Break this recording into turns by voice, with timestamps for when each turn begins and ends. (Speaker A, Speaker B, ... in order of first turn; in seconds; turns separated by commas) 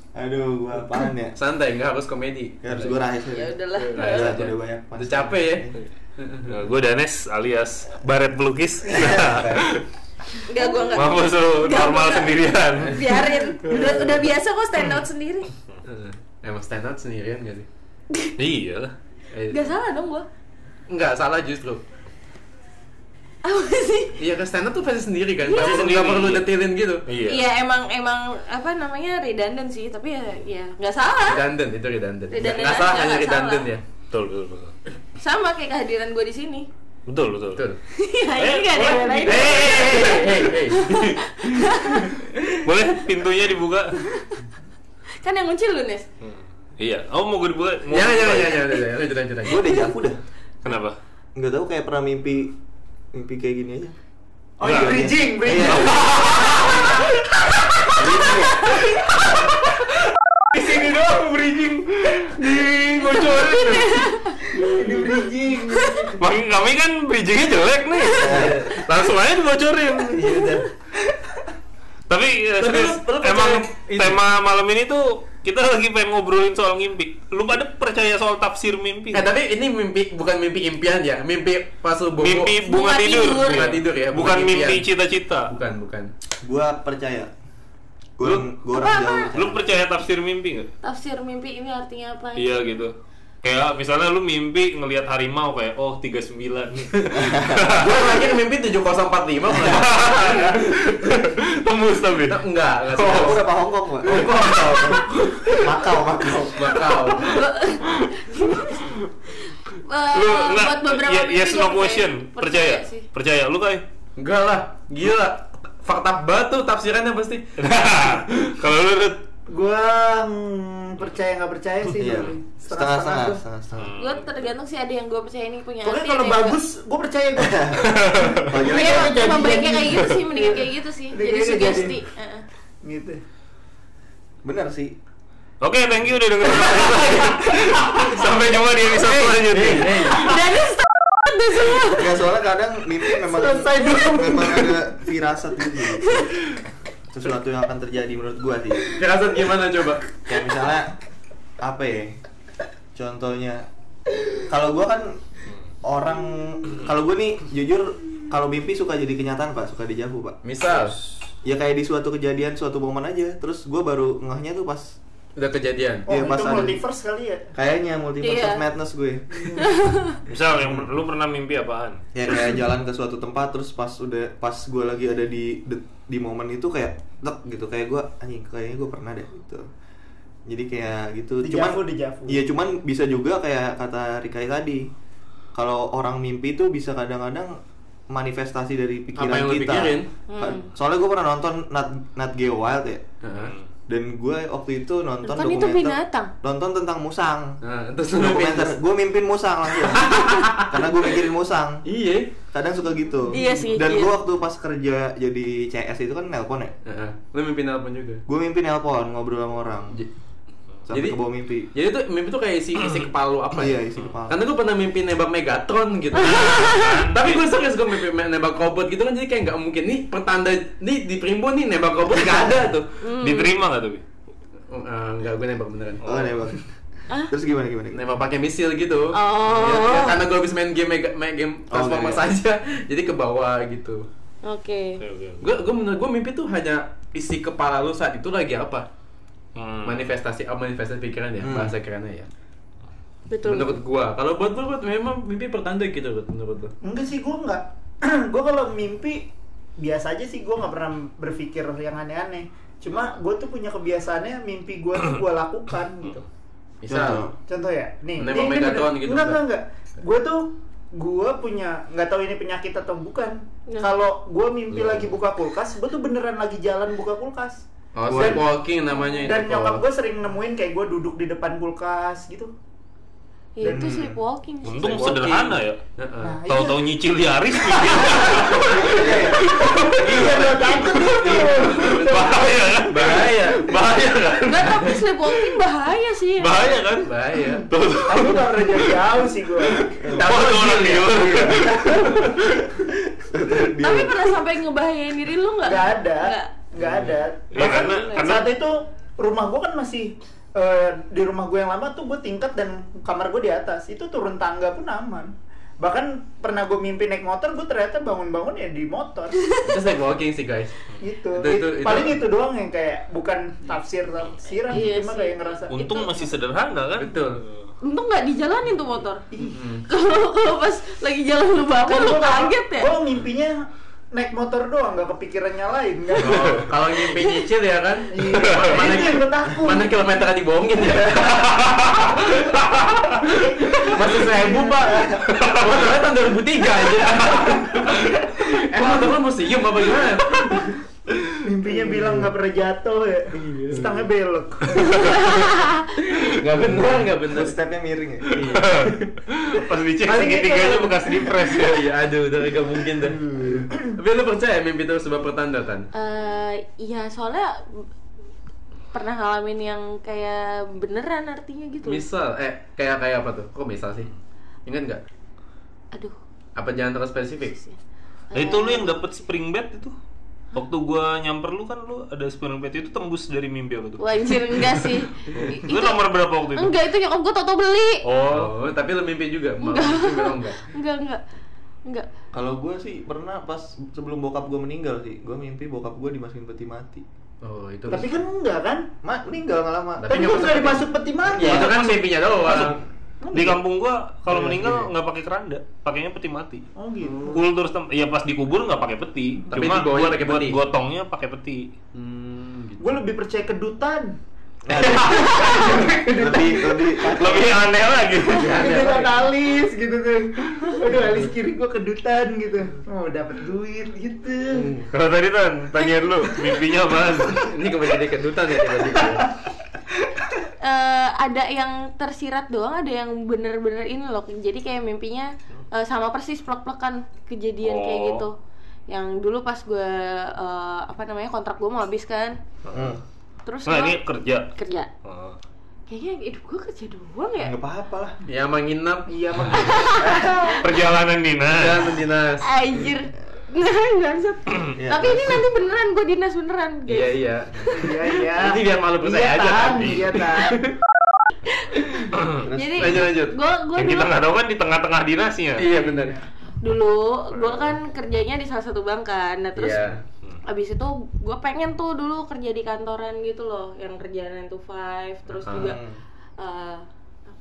Speaker A: 0.2-1.4, Speaker B: 1.4-3.0, Speaker A: 2.6-5.8, Speaker C: 3.3-4.4, Speaker B: 3.9-6.5, Speaker D: 6.5-9.8, Speaker A: 8.9-9.7, Speaker C: 10.5-15.5, Speaker D: 10.9-13.1, Speaker D: 13.7-13.9, Speaker B: 15.9-17.7, Speaker D: 18.4-18.9, Speaker B: 19.3-19.7, Speaker C: 19.5-20.3, Speaker B: 20.9-21.8, Speaker C: 23.4-24.2, Speaker B: 24.2-27.0, Speaker C: 25.4-25.8, Speaker D: 25.5-26.5, Speaker D: 27.1-27.4, Speaker C: 27.3-31.4, Speaker B: 31.3-33.8, Speaker C: 32.3-33.7, Speaker D: 34.1-34.8, Speaker C: 35.2-36.7, Speaker D: 37.1-37.7, Speaker C: 37.9-42.9, Speaker D: 38.4-40.4, Speaker B: 38.8-41.4, Speaker D: 41.9-44.0, Speaker C: 44.0-44.4, Speaker C: 45.2-46.1, Speaker D: 46.2-48.7, Speaker B: 47.9-49.9, Speaker A: 49.5-50.2, Speaker D: 50.6-51.0, Speaker A: 51.4-52.5, Speaker A: 53.1-53.9, Speaker E: 54.6-56.9, Speaker D: 54.6-57.0, Speaker A: 54.7-56.1, Speaker A: 58.0-58.7, Speaker D: 59.1-59.5, Speaker D: 60.5-64.2, Speaker C: 63.0-64.7, Speaker E: 64.5-66.2, Speaker C: 65.8-66.1, Speaker D: 66.2-70.6, Speaker A: 68.2-68.6, Speaker B: 68.3-68.8, Speaker B: 70.1-70.7, Speaker D: 72.1-79.3, Speaker B: 72.6-74.2, Speaker B: 79.1-82.6, Speaker D: 82.2-85.5, Speaker C: 82.6-83.7, Speaker B: 83.4-84.8, Speaker B: 85.5-86.1, Speaker A: 86.4-87.3, Speaker A: 88.2-89.6, Speaker D: 88.2-88.5, Speaker C: 88.8-89.3, Speaker D: 89.3-90.7, Speaker C: 90.8-92.6, Speaker D: 92.4-98.0, Speaker A: 97.1-97.6, Speaker B: 97.7-101.2, Speaker D: 99.6-102.4, Speaker B: 102.2-105.8, Speaker A: 103.0-107.0, Speaker D: 103.0-103.4, Speaker D: 104.2-105.2, Speaker B: 106.5-107.4, Speaker C: 107.2-113.1, Speaker D: 110.1-113.8, Speaker B: 114.2-118.5, Speaker D: 117.6-119.2, Speaker E: 119.5-123.4, Speaker A: 122.0-124.0, Speaker D: 123.8-124.3, Speaker C: 124.0-126.6, Speaker E: 125.8-132.0, Speaker A: 127.4-127.8, Speaker A: 128.4-129.4, Speaker C: 128.7-132.4, Speaker E: 132.8-133.2, Speaker A: 134.4-134.9, Speaker D: 135.6-140.4, Speaker B: 139.0-140.4, Speaker C: 140.1-142.2, Speaker A: 141.9-146.3, Speaker D: 143.3-144.6, Speaker C: 146.1-146.3, Speaker A: 147.1-148.9, Speaker B: 148.9-150.1, Speaker A: 150.2-151.0, Speaker A: 151.6-152.2, Speaker A: 152.9-153.7, Speaker A: 154.4-155.2, Speaker A: 155.8-160.4, Speaker B: 160.4-161.0, Speaker A: 161.4-165.0, Speaker B: 165.4-166.1, Speaker A: 166.1-166.8, Speaker E: 166.1-167.5, Speaker A: 167.5-169.5, Speaker C: 168.2-168.6, Speaker C: 169.6-170.1, Speaker D: 170.3-172.6, Speaker A: 172.2-179.7, Speaker A: 180.5-184.9, Speaker E: 181.4-182.4, Speaker A: 185.5-187.6, Speaker A: 188.1-193.1, Speaker B: 189.2-190.1, Speaker C: 190.3-190.7, Speaker B: 193.2-193.6, Speaker D: 193.4-193.7, Speaker A: 193.9-197.6, Speaker C: 195.2-196.3, Speaker B: 197.6-198.8, Speaker A: 198.1-201.8, Speaker B: 199.8-201.2, Speaker B: 201.9-202.3, Speaker A: 202.5-206.7, Speaker C: 203.3-204.2, Speaker B: 206.9-208.2, Speaker A: 208.3-209.9, Speaker A: 210.9-211.7, Speaker B: 210.9-211.2, Speaker B: 211.7-223.0, Speaker A: 213.5-214.4, Speaker D: 216.2-217.4, Speaker C: 216.3-217.0, Speaker A: 222.2-222.6, Speaker C: 223.0-223.5, Speaker D: 223.2-224.0, Speaker B: 224.7-226.4, Speaker A: 226.1-228.0, Speaker B: 227.9-234.0, Speaker C: 229.1-230.2, Speaker A: 231.7-232.2, Speaker C: 234.4-235.0, Speaker D: 235.0-235.5, Speaker B: 235.4-238.9, Speaker D: 239.6-240.1, Speaker B: 239.8-242.3, Speaker A: 241.4-241.7, Speaker C: 243.3-243.8, Speaker B: 243.4-246.7, Speaker E: 246.8-256.3, Speaker B: 256.8-257.3, Speaker A: 256.9-257.3, Speaker E: 257.5-267.6, Speaker B: 258.2-259.4, Speaker B: 264.7-265.1, Speaker B: 267.9-269.8, Speaker A: 268.1-268.4, Speaker E: 269.2-272.5, Speaker C: 273.6-275.1, Speaker E: 273.6-274.0, Speaker A: 273.6-274.2, Speaker D: 274.6-275.8, Speaker B: 274.8-276.4, Speaker E: 276.2-276.9, Speaker D: 276.4-285.4, Speaker E: 277.7-282.4, Speaker A: 278.6-279.6, Speaker B: 280.1-284.4, Speaker C: 284.4-286.8, Speaker D: 286.4-289.1, Speaker B: 287.0-287.7, Speaker E: 287.5-292.6, Speaker D: 289.7-292.4, Speaker B: 290.2-291.1, Speaker A: 291.3-292.0, Speaker A: 292.7-294.1, Speaker C: 293.8-296.5, Speaker E: 295.6-309.6, Speaker D: 297.5-298.5, Speaker C: 297.6-297.9, Speaker B: 309.6-310.7, Speaker E: 311.0-315.7, Speaker B: 311.3-312.2, Speaker C: 314.7-316.3, Speaker D: 315.7-317.7, Speaker B: 317.0-317.4, Speaker C: 317.8-319.2, Speaker E: 319.3-319.6, Speaker B: 319.5-319.9, Speaker C: 319.9-322.9, Speaker E: 321.9-327.2, Speaker B: 326.2-332.9, Speaker E: 328.1-330.0, Speaker D: 328.4-328.7, Speaker D: 331.4-332.1, Speaker E: 333.2-335.1, Speaker B: 333.8-340.7, Speaker D: 335.3-336.0, Speaker D: 337.0-338.5, Speaker E: 341.4-345.2, Speaker A: 341.7-342.3, Speaker C: 345.0-345.8, Speaker B: 346.0-347.6, Speaker A: 346.8-348.7, Speaker D: 348.4-351.9, Speaker B: 348.5-348.9, Speaker B: 350.1-355.9, Speaker A: 353.2-353.7, Speaker C: 355.9-357.9, Speaker C: 358.9-362.1, Speaker B: 361.8-364.1, Speaker B: 364.7-365.0, Speaker B: 366.6-367.6, Speaker C: 368.3-368.9, Speaker D: 368.3-369.9, Speaker D: 370.5-376.8, Speaker C: 374.0-376.0, Speaker C: 376.6-378.0, Speaker D: 378.0-378.5, Speaker B: 378.3-380.7, Speaker C: 379.6-381.2, Speaker A: 382.3-387.1, Speaker B: 387.4-388.2, Speaker E: 387.9-388.9, Speaker A: 389.0-390.4, Speaker B: 390.0-392.8, Speaker E: 390.1-391.7, Speaker D: 391.4-392.8, Speaker E: 393.2-393.6, Speaker D: 393.3-396.6, Speaker A: 394.3-394.9, Speaker E: 396.8-397.4, Speaker D: 397.2-401.7, Speaker B: 399.5-400.6, Speaker B: 401.9-403.0, Speaker E: 402.8-404.2, Speaker A: 404.7-407.6, Speaker D: 404.8-405.8, Speaker B: 404.8-406.0, Speaker E: 404.8-407.1, Speaker D: 407.1-408.5, Speaker B: 408.3-409.1, Speaker E: 408.3-414.7, Speaker B: 414.5-414.9, Speaker D: 414.9-417.5, Speaker B: 417.3-419.4, Speaker C: 420.6-428.4, Speaker D: 427.6-428.2, Speaker C: 428.9-432.4, Speaker D: 432.7-432.9, Speaker A: 432.7-433.0, Speaker C: 433.5-434.0, Speaker D: 433.7-434.5, Speaker C: 434.6-434.9, Speaker D: 435.0-435.4, Speaker C: 435.9-437.6, Speaker A: 437.4-438.2, Speaker B: 438.3-439.2, Speaker E: 439.1-440.2, Speaker C: 439.5-440.5, Speaker A: 440.0-440.6, Speaker D: 440.6-441.9, Speaker B: 441.5-442.5, Speaker C: 442.4-447.9, Speaker A: 444.8-445.5, Speaker B: 446.9-447.7, Speaker E: 447.8-450.6, Speaker B: 448.3-450.8, Speaker C: 451.6-454.1, Speaker D: 452.1-453.1, Speaker A: 452.4-453.1, Speaker B: 452.8-453.4, Speaker D: 453.8-455.8, Speaker B: 455.6-456.2, Speaker C: 456.6-459.9, Speaker B: 457.4-457.7, Speaker B: 459.6-460.0, Speaker C: 460.4-465.8, Speaker B: 465.5-465.8, Speaker A: 465.5-466.0, Speaker C: 466.4-466.9